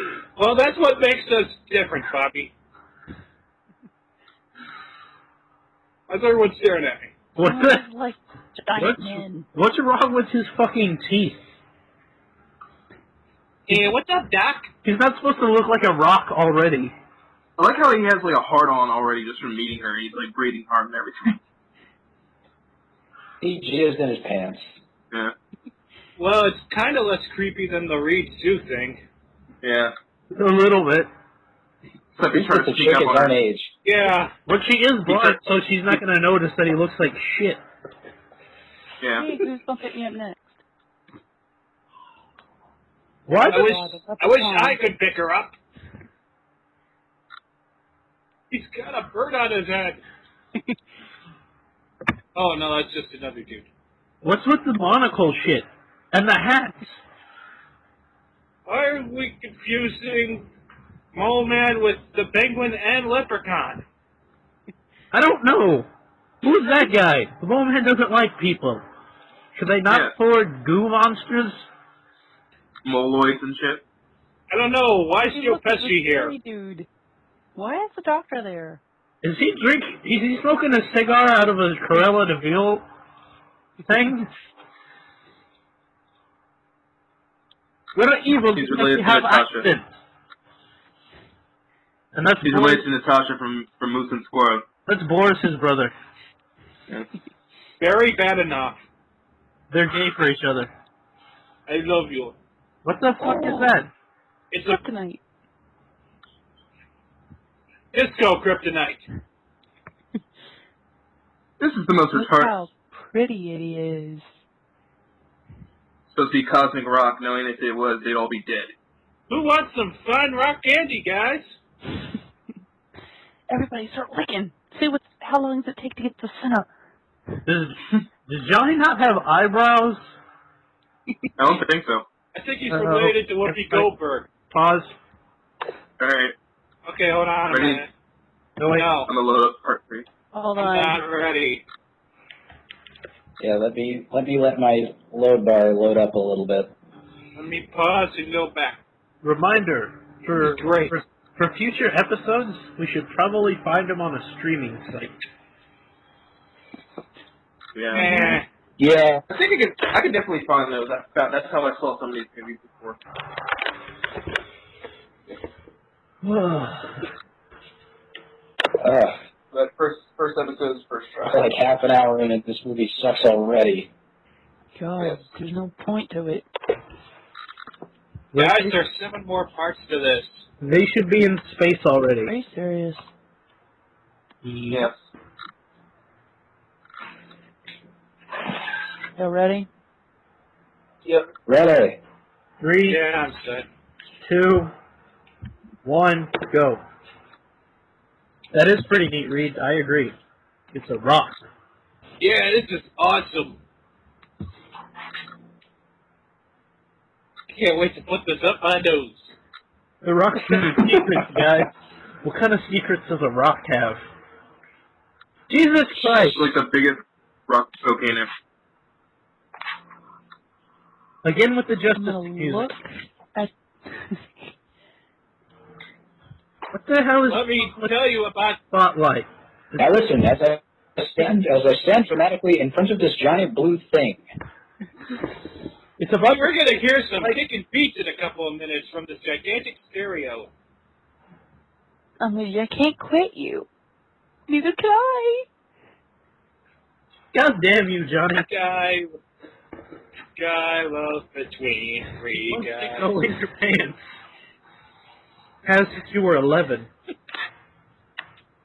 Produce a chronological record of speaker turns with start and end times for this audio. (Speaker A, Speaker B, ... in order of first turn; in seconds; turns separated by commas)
Speaker A: 0.3-2.5, Speaker A: 6.1-7.1, Speaker B: 7.3-7.8, Speaker C: 7.4-9.4, Speaker B: 8.8-11.4, Speaker A: 13.7-14.7, Speaker B: 14.8-16.9, Speaker D: 17.6-21.4, Speaker E: 23.4-24.6, Speaker A: 26.2-29.0, Speaker D: 29.6-29.9, Speaker B: 30.3-31.1, Speaker D: 32.1-33.4, Speaker E: 32.3-33.7, Speaker A: 33.8-34.3, Speaker B: 34.5-37.6, Speaker D: 35.1-35.4, Speaker D: 39.0-39.3, Speaker C: 39.1-40.5, Speaker B: 43.3-43.7, Speaker C: 43.3-44.8, Speaker A: 43.5-45.5, Speaker A: 48.5-50.0, Speaker A: 52.3-53.7, Speaker B: 54.2-57.0, Speaker A: 58.6-60.5, Speaker A: 61.1-63.8, Speaker B: 65.1-65.9, Speaker B: 66.4-68.8, Speaker B: 69.5-71.7, Speaker D: 69.9-70.1, Speaker D: 72.8-73.8, Speaker A: 74.5-76.3, Speaker C: 75.3-76.9, Speaker C: 77.5-78.8, Speaker B: 79.2-82.8, Speaker B: 83.8-84.3, Speaker B: 87.9-89.8, Speaker D: 88.5-89.7, Speaker B: 92.1-92.8, Speaker D: 92.4-94.7, Speaker B: 94.8-95.9, Speaker A: 97.8-98.8, Speaker B: 99.7-100.7, Speaker A: 101.7-102.4, Speaker B: 102.8-103.9, Speaker C: 103.2-103.7, Speaker A: 104.5-104.8, Speaker C: 104.6-105.2, Speaker A: 107.9-109.0, Speaker D: 111.6-112.5, Speaker C: 112.1-114.2, Speaker D: 116.1-118.7, Speaker A: 119.3-121.4, Speaker C: 123.5-126.7, Speaker B: 127.5-130.0, Speaker D: 131.4-132.0, Speaker A: 132.3-134.3, Speaker B: 132.7-133.9, Speaker B: 134.5-134.9, Speaker D: 136.0-136.3, Speaker A: 136.8-137.9, Speaker D: 137.5-137.8, Speaker B: 138.6-138.9, Speaker A: 138.7-139.1, Speaker D: 139.1-140.1, Speaker C: 140.3-141.0, Speaker A: 140.6-141.6, Speaker E: 143.4-146.7, Speaker A: 147.3-148.8, Speaker B: 149.2-155.1, Speaker A: 150.3-150.9, Speaker D: 157.7-158.3, Speaker A: 157.9-158.4, Speaker E: 158.8-159.2, Speaker D: 159.3-163.0, Speaker B: 166.2-167.0, Speaker E: 168.8-169.2, Speaker D: 169.5-171.5, Speaker E: 171.2-173.9, Speaker C: 174.8-176.4, Speaker B: 178.3-178.7, Speaker A: 178.3-180.4, Speaker B: 180.6-182.3, Speaker C: 182.2-183.0, Speaker B: 184.4-184.8, Speaker D: 184.7-184.9, Speaker C: 189.2-189.7, Speaker E: 191.4-192.0, Speaker B: 192.6-193.0, Speaker A: 192.8-193.7, Speaker B: 194.2-194.7, Speaker B: 195.8-196.8, Speaker B: 198.5-200.1, Speaker B: 200.7-201.4, Speaker A: 202.2-203.6, Speaker A: 207.5-209.3, Speaker B: 210.0-211.7, Speaker D: 210.5-210.9, Speaker B: 212.2-214.0, Speaker B: 215.5-216.4, Speaker D: 216.0-218.3, Speaker B: 221.2-222.7, Speaker C: 221.9-222.8, Speaker C: 223.3-224.2, Speaker B: 226.7-227.9, Speaker A: 227.3-228.6, Speaker B: 228.7-229.8, Speaker E: 229.8-234.2, Speaker B: 236.0-236.5, Speaker A: 236.2-240.5, Speaker C: 242.2-243.7, Speaker C: 244.5-245.4, Speaker B: 247.3-248.5, Speaker A: 248.4-249.2, Speaker A: 250.3-253.1, Speaker B: 252.5-254.0, Speaker B: 255.6-256.9